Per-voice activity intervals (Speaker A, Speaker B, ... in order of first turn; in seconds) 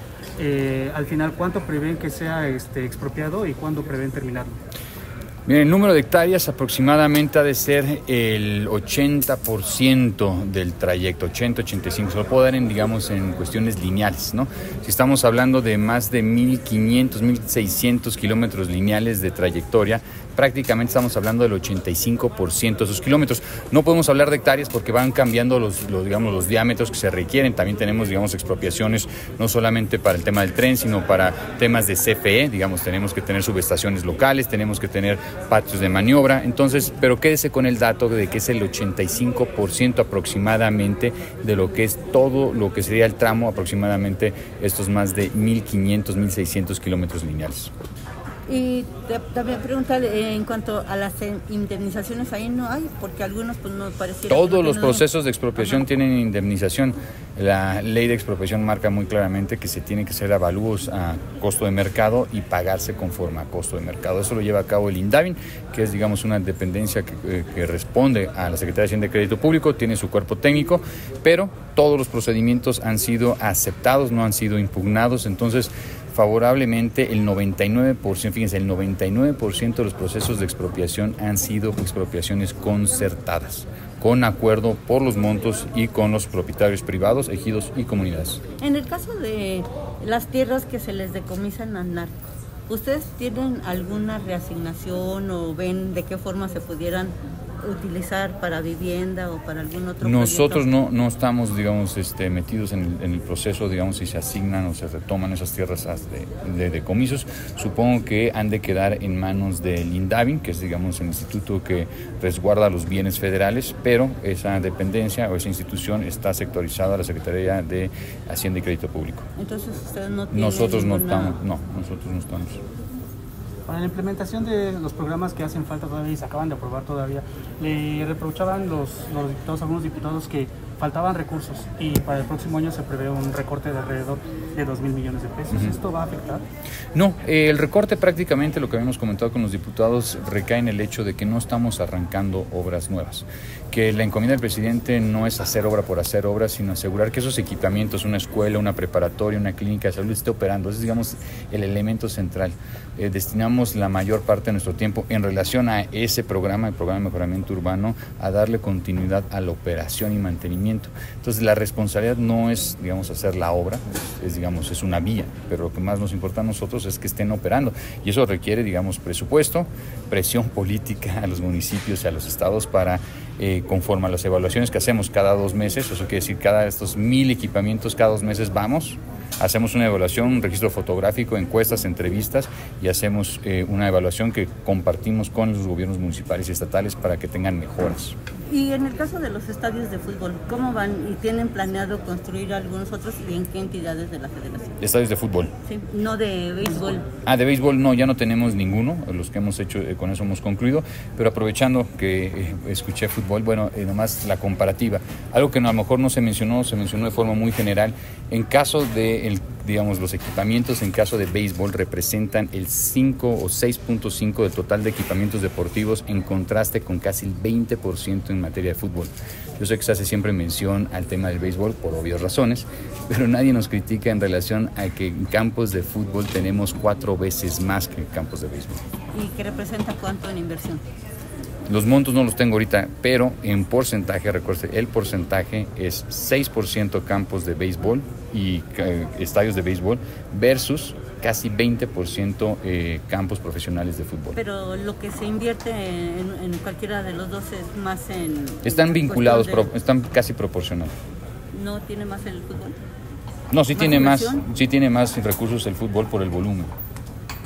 Speaker A: 0.4-4.6, 123.7-136.4
Speaker B: 5.5-47.7, 54.3-88.4, 100.0-119.2, 120.3-122.6, 136.9-188.2, 194.8-195.5, 197.2-228.8, 231.7-244.4, 248.6-250.9, 253.5-256.7
Speaker C: 48.5-55.0, 88.6-92.1, 92.7-100.7, 119.4-121.4, 188.5-194.8, 195.6-197.1, 229.1-230.8, 244.3-249.7, 251.5-252.8, 253.7-254.4